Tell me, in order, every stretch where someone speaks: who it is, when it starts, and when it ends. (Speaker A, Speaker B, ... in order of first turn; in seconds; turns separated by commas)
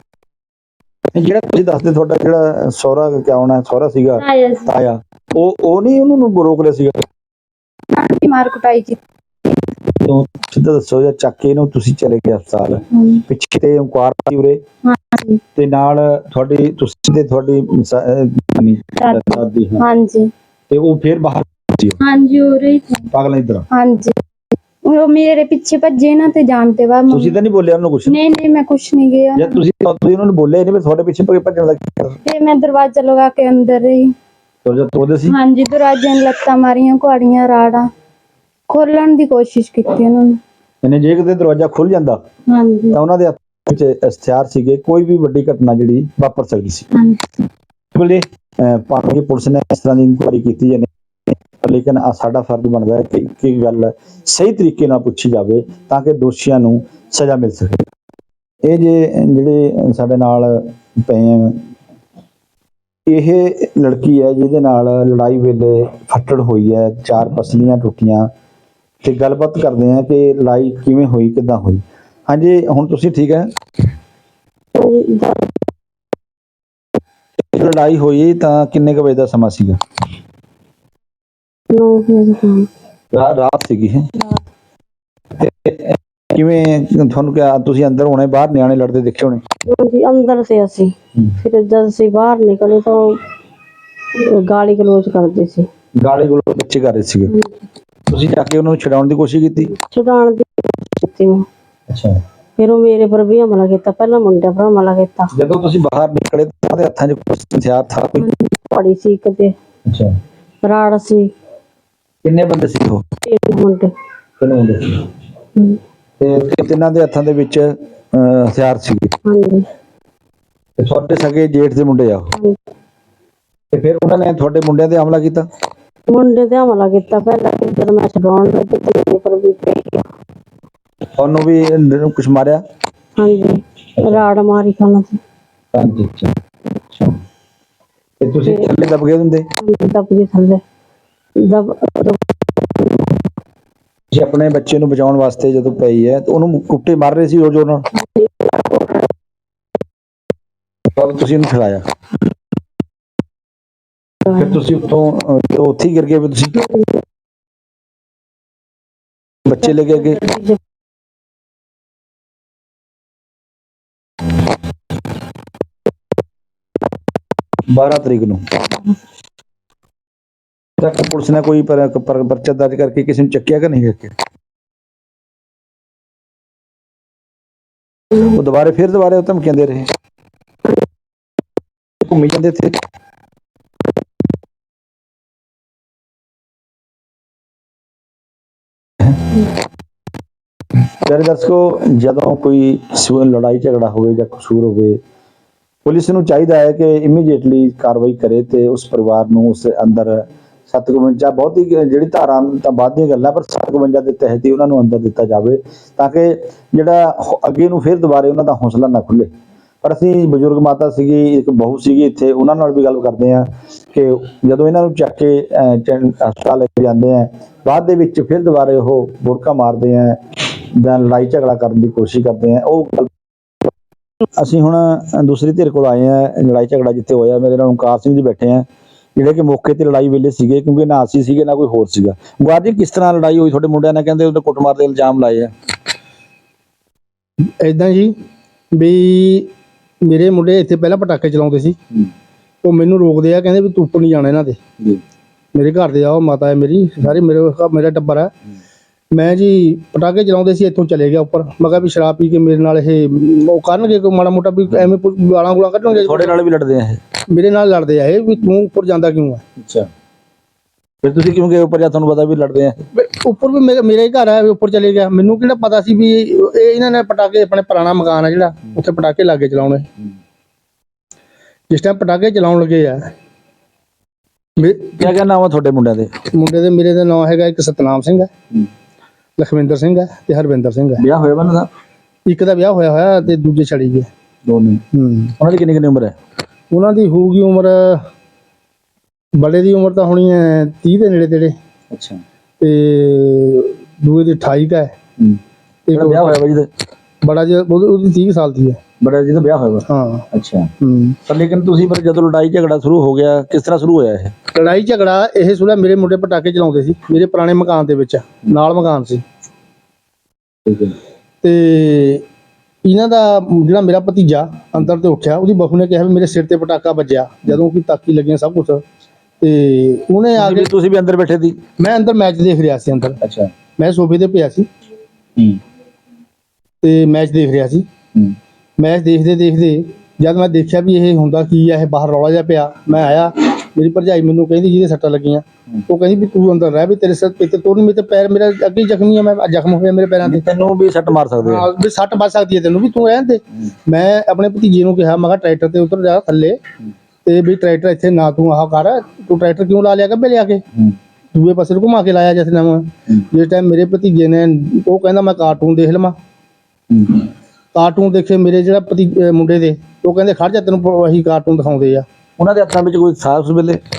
Speaker A: 1.1-7.0, Speaker B: 4.2-4.7, Speaker B: 7.9-9.0, Speaker A: 9.9-14.6, Speaker B: 12.9-13.2, Speaker B: 14.9-15.4, Speaker A: 15.6-19.8, Speaker B: 19.0-20.3, Speaker A: 20.7-22.0, Speaker B: 22.0-23.1, Speaker A: 23.1-23.7, Speaker B: 23.7-24.1, Speaker B: 24.9-27.4, Speaker A: 27.1-28.2, Speaker B: 28.1-29.6, Speaker A: 29.4-32.2, Speaker B: 32.2-34.1, Speaker A: 34.6-35.4, Speaker B: 35.3-37.9, Speaker B: 38.7-40.4, Speaker A: 40.8-42.2, Speaker B: 42.5-43.0, Speaker A: 42.9-46.9, Speaker B: 47.0-47.4, Speaker A: 47.9-50.9, Speaker A: 51.6-57.8, Speaker A: 58.6-61.6, Speaker A: 63.1-68.3, Speaker A: 69.0-73.5, Speaker C: 74.8-75.5, Speaker A: 77.5-79.8, Speaker C: 81.7-82.7, Speaker A: 83.1-84.1, Speaker A: 85.4-89.4, Speaker C: 89.7-93.2, Speaker C: 94.3-95.7, Speaker A: 96.0-97.3, Speaker A: 98.1-99.7, Speaker C: 99.7-101.5, Speaker A: 101.9-102.2, Speaker C: 102.6-105.3, Speaker A: 105.3-108.3, Speaker C: 108.3-109.5, Speaker A: 109.9-110.1, Speaker C: 110.6-111.3, Speaker A: 112.2-113.0, Speaker C: 113.3-113.9, Speaker A: 114.4-115.0, Speaker A: 116.2-119.1, Speaker C: 119.2-119.7, Speaker A: 120.8-122.3, Speaker A: 123.7-125.5, Speaker C: 126.1-130.0, Speaker A: 131.2-132.6, Speaker C: 133.2-135.2, Speaker A: 135.7-136.3, Speaker A: 138.2-139.5, Speaker C: 139.6-140.6, Speaker C: 141.4-142.9, Speaker A: 144.1-147.9, Speaker C: 148.0-149.0, Speaker A: 150.9-151.8, Speaker A: 154.3-156.6, Speaker A: 159.4-160.2, Speaker C: 159.9-160.6, Speaker A: 167.7-168.5, Speaker A: 170.8-174.1, Speaker A: 178.2-179.9, Speaker A: 182.0-182.8, Speaker A: 191.0-195.0, Speaker A: 195.8-209.3, Speaker A: 209.8-223.1, Speaker A: 224.4-235.5, Speaker D: 237.6-238.1, Speaker D: 238.8-239.5, Speaker D: 240.1-241.8, Speaker D: 242.6-244.6, Speaker D: 245.6-248.3, Speaker D: 249.1-256.3, Speaker A: 255.9-257.0, Speaker D: 257.3-259.4, Speaker A: 259.6-259.9, Speaker A: 261.0-262.9, Speaker D: 263.0-269.8, Speaker D: 271.7-273.0, Speaker D: 274.6-275.0, Speaker A: 275.0-276.2, Speaker D: 276.3-278.3, Speaker D: 279.4-281.0, Speaker A: 281.0-281.7, Speaker D: 282.3-284.1, Speaker A: 284.5-284.8, Speaker D: 284.9-285.3, Speaker A: 285.4-286.1, Speaker D: 286.7-287.9, Speaker D: 289.4-291.5, Speaker A: 291.9-292.2, Speaker D: 292.6-294.9, Speaker D: 295.9-296.4, Speaker A: 295.9-296.7, Speaker D: 297.2-298.8, Speaker A: 299.0-300.7, Speaker D: 299.9-300.2, Speaker D: 300.8-301.1, Speaker A: 301.3-304.3, Speaker D: 304.6-309.2, Speaker A: 310.7-311.0, Speaker D: 311.4-312.2, Speaker D: 312.9-318.8, Speaker D: 319.4-320.7, Speaker A: 320.4-321.6, Speaker D: 321.8-323.2, Speaker A: 323.2-323.5, Speaker D: 323.8-324.6, Speaker D: 326.8-327.8, Speaker D: 328.8-340.4, Speaker A: 340.2-341.7, Speaker D: 341.4-346.6, Speaker D: 347.3-350.6, Speaker D: 351.4-356.1, Speaker A: 356.9-357.2, Speaker D: 357.8-362.0, Speaker A: 362.4-363.8